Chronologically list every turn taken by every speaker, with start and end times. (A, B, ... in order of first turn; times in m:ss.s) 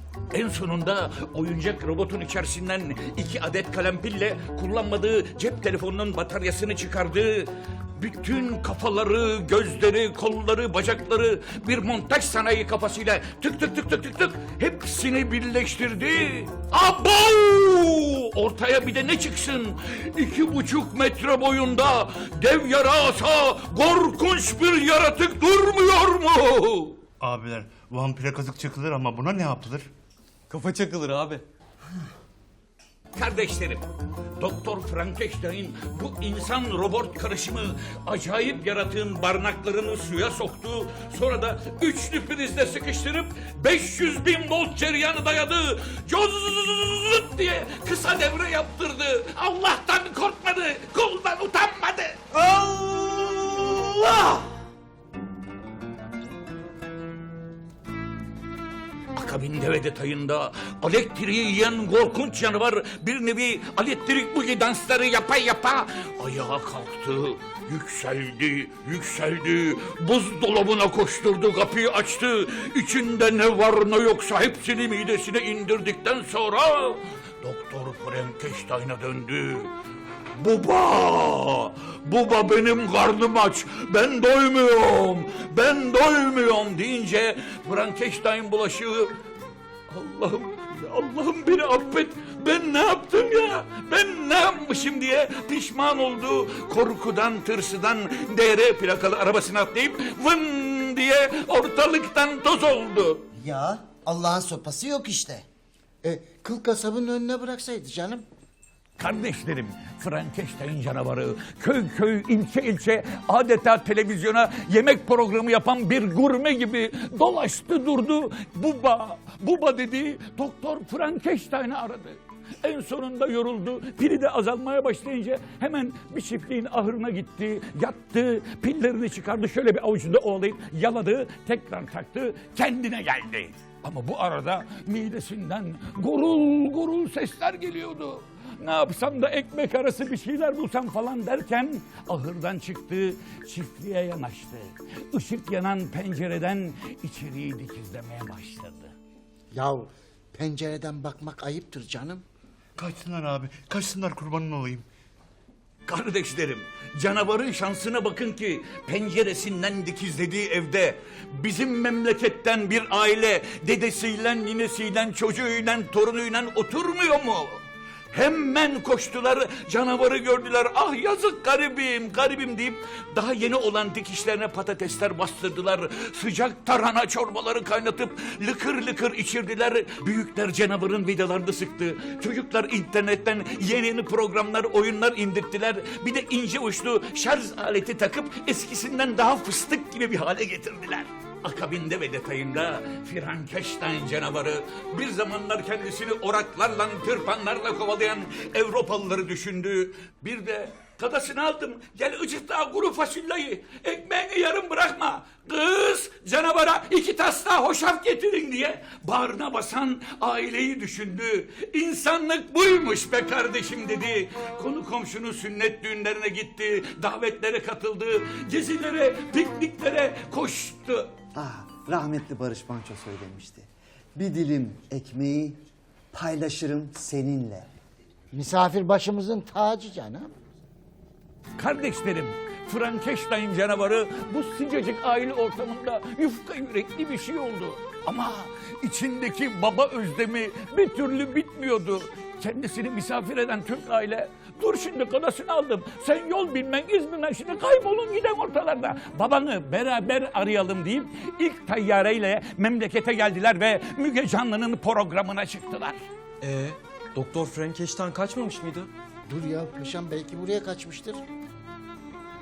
0:00.3-0:27.0 A
0:27.2-0:29.9 B
0:30.5-0:31.4 C
0:33.1-0:33.8 A
0:34.4-0:54.6 A
0:59.1-1:19.7 A
1:20.3-1:29.1 A
1:29.9-1:43.2 A
1:43.4-1:45.4 D
1:46.0-1:48.2 E
1:49.0-2:28.9 A
2:29.5-2:32.2 E
2:32.8-2:34.8 B
2:35.8-3:41.1 A
3:41.3-3:45.6 F
3:46.1-3:47.7 F
3:48.3-3:50.3 E
3:51.6-4:16.0 A
4:16.4-4:18.9 C
4:19.3-4:21.2 E